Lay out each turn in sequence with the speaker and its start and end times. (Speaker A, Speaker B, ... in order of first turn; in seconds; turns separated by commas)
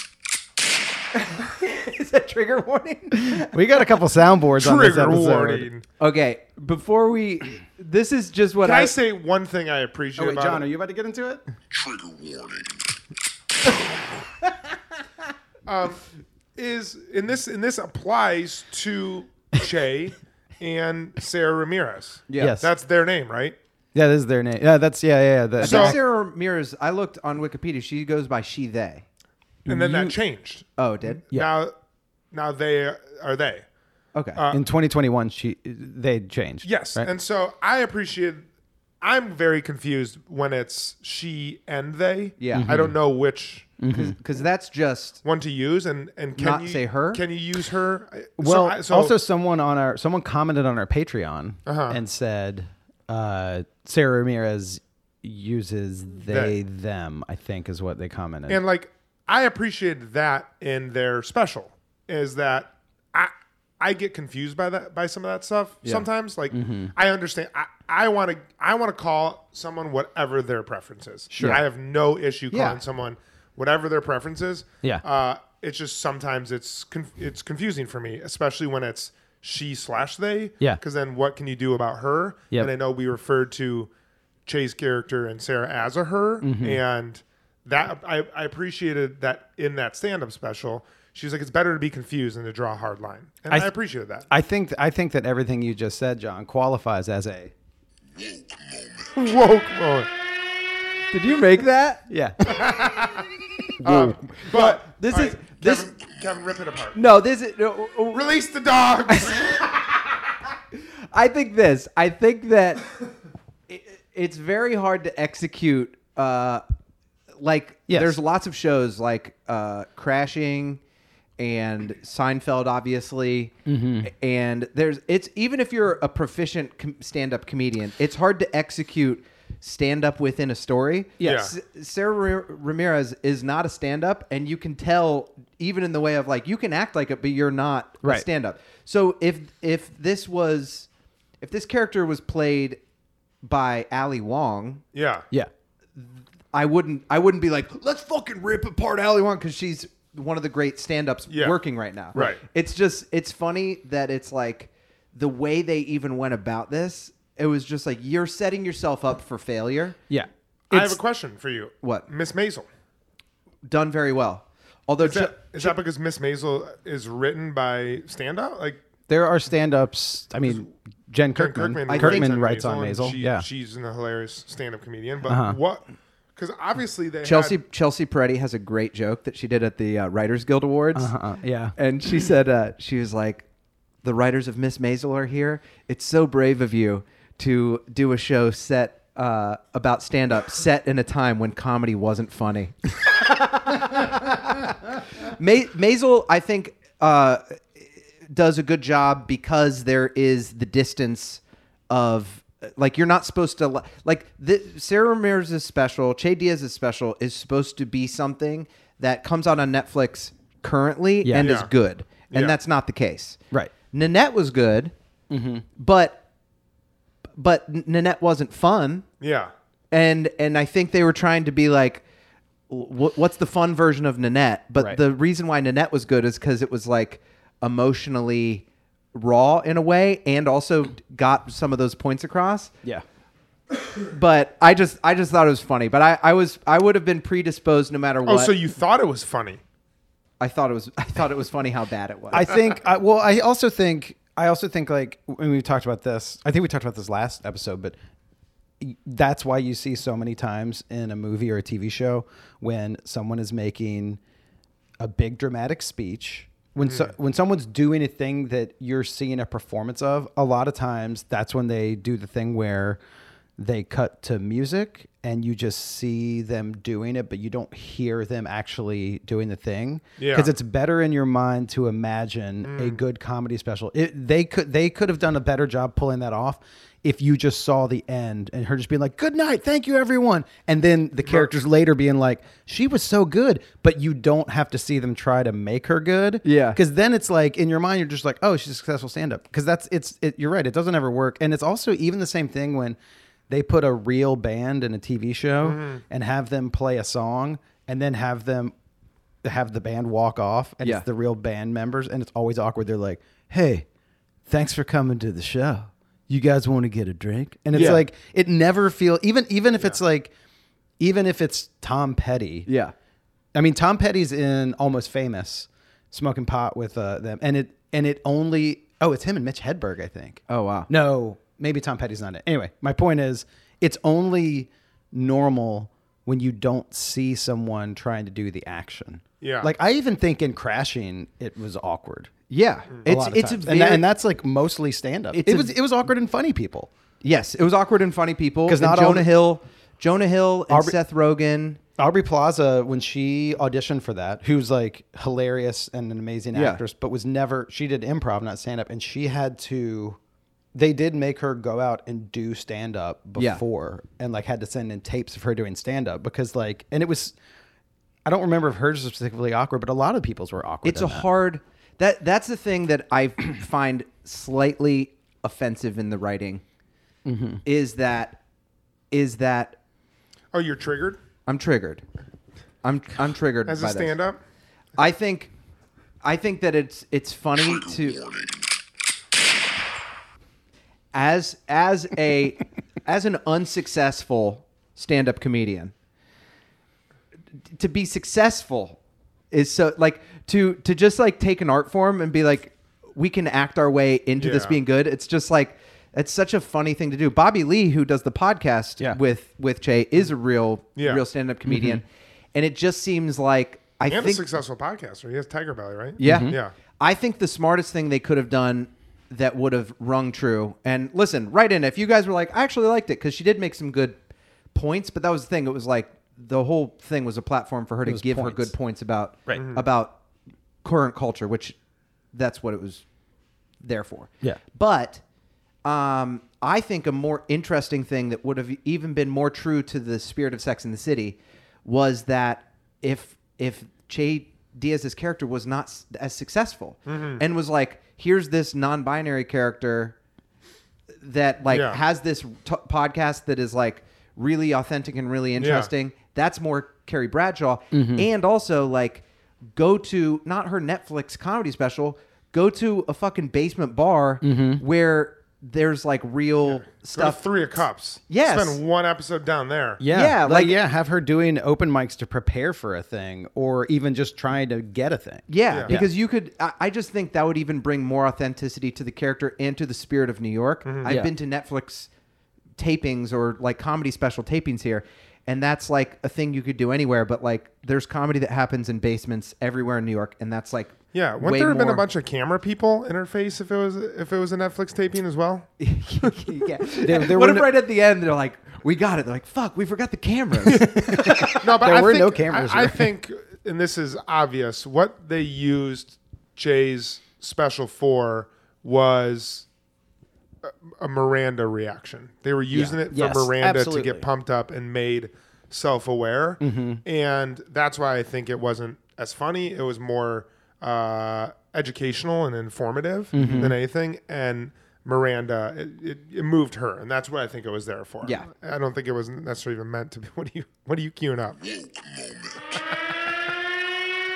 Speaker A: 1.1-3.9, Speaker B: 3.2-5.7, Speaker C: 4.6-5.8, Speaker A: 6.0-8.9, Speaker C: 8.6-10.6, Speaker B: 10.2-11.4, Speaker C: 15.7-16.0, Speaker C: 16.6-23.6, Speaker A: 22.3-22.6, Speaker B: 22.4-22.7, Speaker B: 23.9-26.0, Speaker A: 25.6-29.1, Speaker C: 25.6-26.0, Speaker B: 29.7-30.2, Speaker C: 29.7-30.7, Speaker A: 30.8-31.2, Speaker C: 31.3-31.7, Speaker C: 32.3-33.6, Speaker A: 34.1-34.4, Speaker C: 34.4-34.6, Speaker B: 34.5-37.1, Speaker C: 36.6-38.5, Speaker C: 39.0-43.7, Speaker A: 42.4-42.9, Speaker B: 42.5-43.0, Speaker B: 43.8-44.2, Speaker A: 43.9-45.2, Speaker C: 45.2-49.1, Speaker A: 46.4-47.2, Speaker B: 48.4-58.6, Speaker C: 51.7-52.0, Speaker C: 56.3-56.6, Speaker C: 58.5-83.9, Speaker B: 66.5-66.9, Speaker B: 71.3-71.6, Speaker A: 72.5-72.8, Speaker C: 84.5-94.3, Speaker B: 86.4-86.8, Speaker B: 94.3-97.5, Speaker C: 99.1-100.1, Speaker A: 101.1-102.0, Speaker B: 102.1-102.7, Speaker C: 102.5-103.2, Speaker B: 103.8-104.2, Speaker C: 103.8-107.0, Speaker A: 103.9-105.9, Speaker A: 107.0-108.4, Speaker C: 108.1-109.7, Speaker A: 111.1-112.9, Speaker A: 113.7-116.6, Speaker A: 117.4-120.8, Speaker B: 117.9-118.2, Speaker A: 121.4-140.9, Speaker B: 123.7-124.1, Speaker B: 131.2-131.5, Speaker C: 131.2-131.5, Speaker A: 141.4-142.8, Speaker A: 143.4-144.8, Speaker C: 144.9-145.2, Speaker A: 146.0-160.0, Speaker C: 151.3-151.6, Speaker C: 152.1-152.4, Speaker B: 160.1-161.0, Speaker C: 160.7-162.7, Speaker A: 163.6-165.8, Speaker C: 165.0-168.8, Speaker B: 169.1-173.5, Speaker C: 171.3-175.8, Speaker A: 171.9-172.3, Speaker B: 175.2-175.6, Speaker C: 176.4-177.6, Speaker A: 177.2-181.1, Speaker B: 180.9-181.7, Speaker A: 181.8-183.4, Speaker A: 184.0-213.4, Speaker B: 211.2-211.6, Speaker C: 211.4-211.7, Speaker A: 213.9-214.9, Speaker B: 215.3-215.7, Speaker A: 215.8-216.2, Speaker A: 217.4-219.1, Speaker C: 219.2-219.5, Speaker A: 219.9-222.0, Speaker A: 222.7-232.7, Speaker A: 234.1-238.5, Speaker C: 238.2-239.6, Speaker A: 240.4-242.7, Speaker B: 242.3-248.0, Speaker B: 248.8-254.2, Speaker B: 255.0-263.0, Speaker C: 256.8-257.1, Speaker B: 263.6-293.0, Speaker C: 270.2-270.5, Speaker C: 272.6-273.0, Speaker C: 281.3-281.5, Speaker A: 286.4-286.8, Speaker B: 293.5-298.7, Speaker C: 295.6-296.0, Speaker B: 299.4-303.9, Speaker B: 304.5-310.3, Speaker A: 307.7-308.0, Speaker C: 307.7-308.0, Speaker B: 311.0-312.7, Speaker A: 312.7-312.9, Speaker B: 313.6-332.3, Speaker A: 320.5-320.9, Speaker C: 329.4-329.7, Speaker A: 332.5-334.1, Speaker B: 333.1-336.9, Speaker A: 335.3-335.7, Speaker A: 337.2-341.8, Speaker B: 338.7-339.3, Speaker B: 340.7-341.0, Speaker B: 342.0-350.2, Speaker A: 346.5-346.8, Speaker B: 350.7-357.4, Speaker A: 353.4-353.6, Speaker B: 358.2-361.3, Speaker A: 360.8-366.6, Speaker B: 367.2-367.6, Speaker A: 367.6-368.4, Speaker A: 369.1-369.8, Speaker C: 370.5-371.2, Speaker A: 371.5-372.0, Speaker A: 372.8-374.1, Speaker C: 373.7-374.4, Speaker A: 375.0-375.5, Speaker A: 376.2-378.3, Speaker A: 381.1-385.9, Speaker A: 387.7-389.0, Speaker A: 389.5-404.5, Speaker C: 394.4-394.8, Speaker C: 401.0-401.2, Speaker B: 401.7-402.0, Speaker C: 404.1-406.7, Speaker A: 406.2-414.2, Speaker B: 406.2-406.6, Speaker A: 414.7-420.2, Speaker B: 418.1-418.7, Speaker C: 419.6-419.8, Speaker A: 420.8-421.8, Speaker A: 422.3-423.0, Speaker A: 423.8-425.2, Speaker A: 425.9-440.2, Speaker C: 437.1-437.4, Speaker A: 441.2-457.4, Speaker C: 441.7-442.0, Speaker C: 445.6-445.9, Speaker B: 447.9-448.3, Speaker B: 454.4-454.8, Speaker C: 456.6-460.0, Speaker A: 458.3-458.8, Speaker B: 460.0-466.1, Speaker A: 460.1-460.8, Speaker A: 465.5-472.1, Speaker C: 465.7-466.0, Speaker C: 470.9-471.2, Speaker A: 472.8-482.1, Speaker C: 481.1-485.7, Speaker A: 485.8-491.5, Speaker B: 487.0-487.8, Speaker B: 490.7-493.1, Speaker C: 491.2-499.7, Speaker C: 500.6-521.9, Speaker B: 502.7-504.3, Speaker B: 506.6-507.0, Speaker B: 513.3-513.8, Speaker A: 513.4-513.8